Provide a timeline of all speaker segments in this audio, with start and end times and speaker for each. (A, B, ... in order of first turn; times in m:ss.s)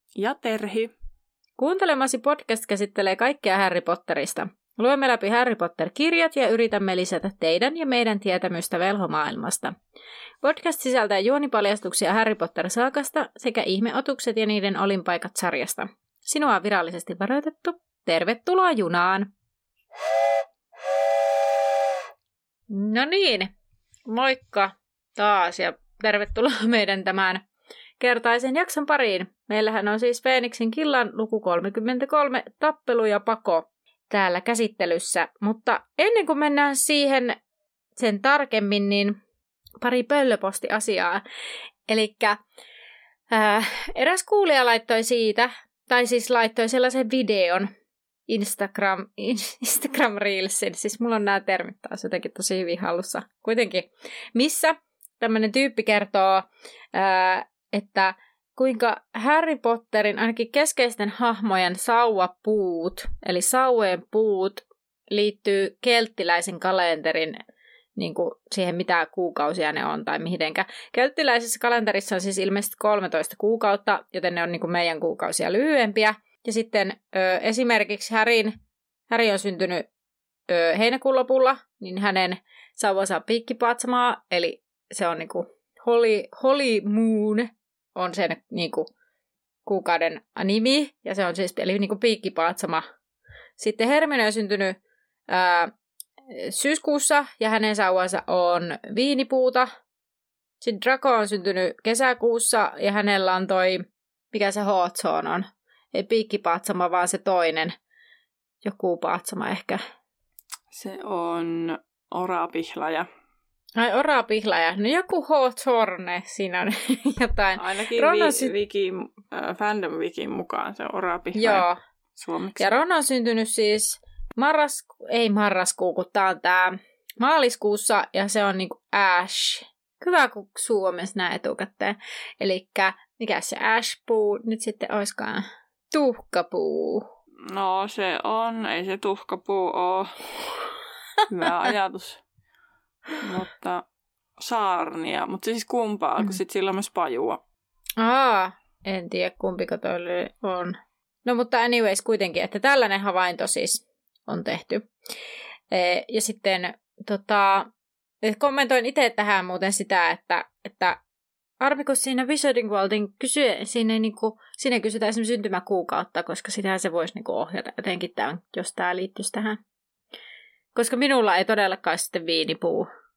0:00.2-0:00.9 A
0:01.6-0:09.7 B
0:10.4-0:19.3 B
0:22.7-0:23.5 B
0:24.1-0:27.4 B
0:28.0-0:37.4 B
0:38.0-0:39.2 B
0:39.8-0:41.2 B
0:41.9-0:42.4 B
0:43.3-0:47.7 B
0:48.3-1:07.4 B
1:08.0-1:18.5 B
1:19.1-1:19.9 B
1:20.5-1:28.9 B
1:29.6-1:32.8 B
1:33.6-1:34.8 B
1:35.3-1:35.7 B
1:36.3-1:39.7 B
1:40.6-1:47.7 B
1:48.6-1:49.8 B
1:50.7-1:53.1 A
1:53.8-1:58.5 B
1:57.6-2:02.7 A
2:01.4-2:01.8 B
2:02.6-2:17.1 B
2:17.5-2:20.6 A
2:21.3-2:22.2 A
2:23.2-2:23.8 A
2:24.4-2:27.4 A
2:28.0-2:34.9 B
2:35.7-2:37.7 B
2:38.2-2:41.0 B
2:41.6-2:49.6 B
2:50.7-2:52.9 B